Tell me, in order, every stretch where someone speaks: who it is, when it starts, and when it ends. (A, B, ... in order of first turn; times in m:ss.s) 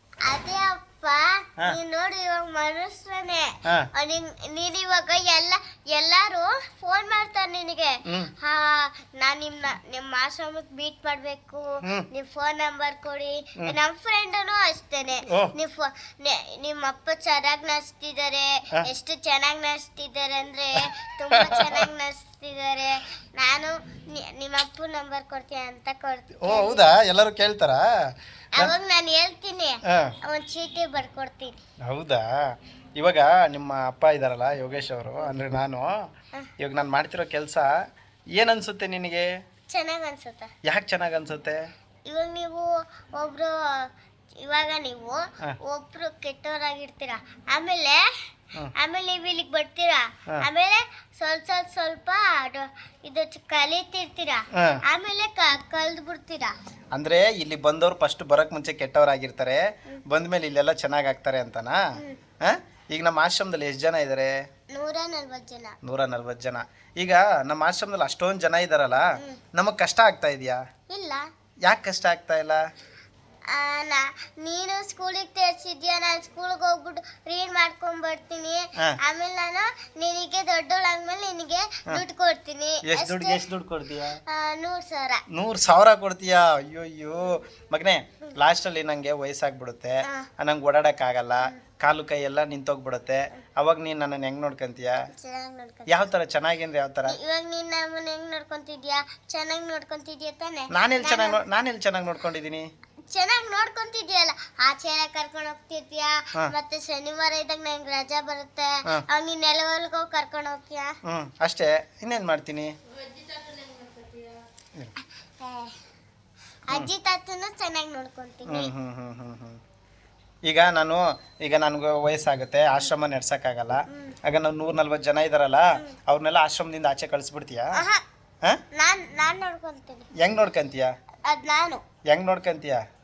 0:00.2-0:26.9 A
0:08.1-0:08.3 B
0:15.3-0:15.5 B
0:21.3-0:21.8 B
0:26.4-0:27.8 B
0:28.5-0:31.6 A
0:29.9-0:30.1 B
0:31.9-0:32.2 B
0:33.0-0:35.9 B
0:36.6-0:37.7 B
0:38.4-0:39.3 B
0:39.7-0:40.5 A
0:40.6-0:41.6 B
0:42.1-0:48.0 A
0:48.7-0:56.5 A
0:54.5-0:54.8 B
0:56.9-1:01.8 B
1:02.4-1:04.3 B
1:04.7-1:05.8 A
1:05.8-1:10.6 B
1:10.9-1:11.2 A
1:11.6-1:12.6 B
1:13.5-1:23.4 A
1:22.8-1:24.2 B
1:24.3-1:25.2 A
1:25.3-1:35.0 B
1:30.0-1:30.3 A
1:35.1-1:36.0 A
1:35.9-1:37.2 B
1:37.1-1:41.4 A
1:40.7-1:42.7 B
1:43.1-1:50.9 A
1:51.0-1:52.7 B
1:55.4-1:55.8 A
1:56.7-1:58.7 A
1:58.5-1:59.6 B
2:00.4-2:07.8 B
2:03.9-2:04.2 A
2:07.8-2:08.0 A
2:08.7-2:10.1 A
2:10.2-2:10.9 B
2:11.2-2:11.8 A
2:12.1-2:12.8 B